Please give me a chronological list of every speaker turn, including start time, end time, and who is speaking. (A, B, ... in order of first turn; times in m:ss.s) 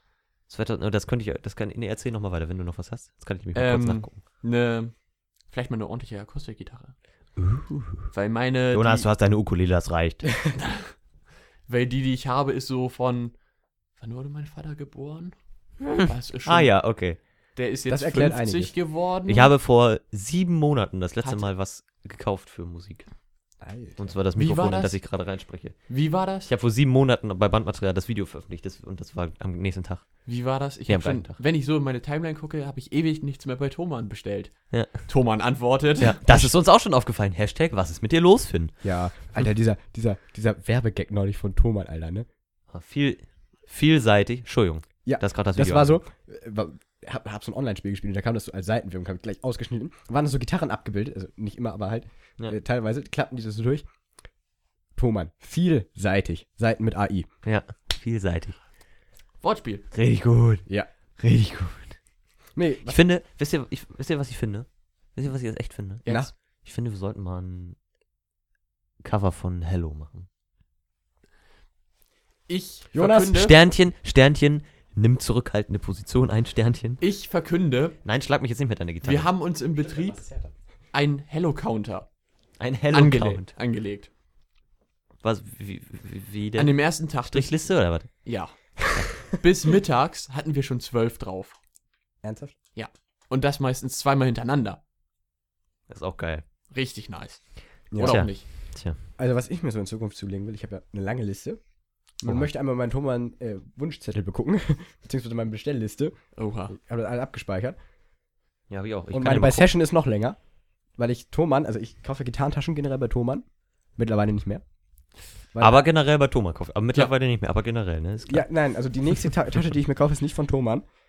0:00.5-0:04.2 A
0:03.5-0:04.9 B
0:05.5-0:06.9 B
0:07.4-0:08.1 A
0:08.1-0:09.1 B
0:08.7-0:10.3 A
0:10.6-0:10.9 B
0:11.7-0:13.3 B
0:14.0-0:15.3 B
0:15.9-0:16.7 B
0:16.0-0:17.2 A
0:17.6-0:19.5 B
0:17.9-0:18.7 C
0:19.3-0:23.1 A
0:23.6-0:24.1 C
0:24.0-0:25.8 A
0:24.4-0:25.0 B
0:25.9-0:26.5 B
0:26.4-0:30.1 A
0:30.2-0:36.5 B
0:30.9-0:31.4 A
0:36.0-0:38.8 A
0:38.8-0:42.3 C
0:42.7-0:46.0 A
0:45.0-0:53.8 C
0:55.0-0:57.3 C
0:57.4-0:58.6 A
0:59.4-0:59.8 B
0:59.9-1:00.7 A
1:01.2-1:02.0 A
1:02.5-1:03.0 C
1:02.8-1:06.1 A
1:06.0-1:06.3 B
1:06.6-1:07.8 A
1:09.0-1:10.3 A
1:12.5-1:13.5 B
1:12.9-1:13.4 C
1:13.3-1:17.0 A
1:17.0-1:18.0 B
1:18.0-1:19.3 A
1:19.0-1:20.2 B
1:19.8-1:20.5 C
1:20.9-1:22.1 B
1:22.6-1:23.5 A
1:22.9-1:24.1 B
1:25.2-1:28.2 A
1:26.6-1:27.5 B
1:28.2-1:31.6 B
1:32.2-1:32.5 C
1:32.8-1:34.8 B
1:35.9-1:36.4 A
1:36.7-1:38.5 B
1:37.9-1:38.4 C
1:38.0-1:39.0 A
1:39.2-1:41.6 C
1:42.2-1:46.2 C
1:46.4-1:46.7 B
1:46.7-1:47.8 C
1:48.7-1:49.7 A
1:49.1-1:50.4 C
1:51.0-1:54.6 C
1:55.5-1:55.8 C
1:55.6-1:58.5 A
1:58.3-2:00.8 C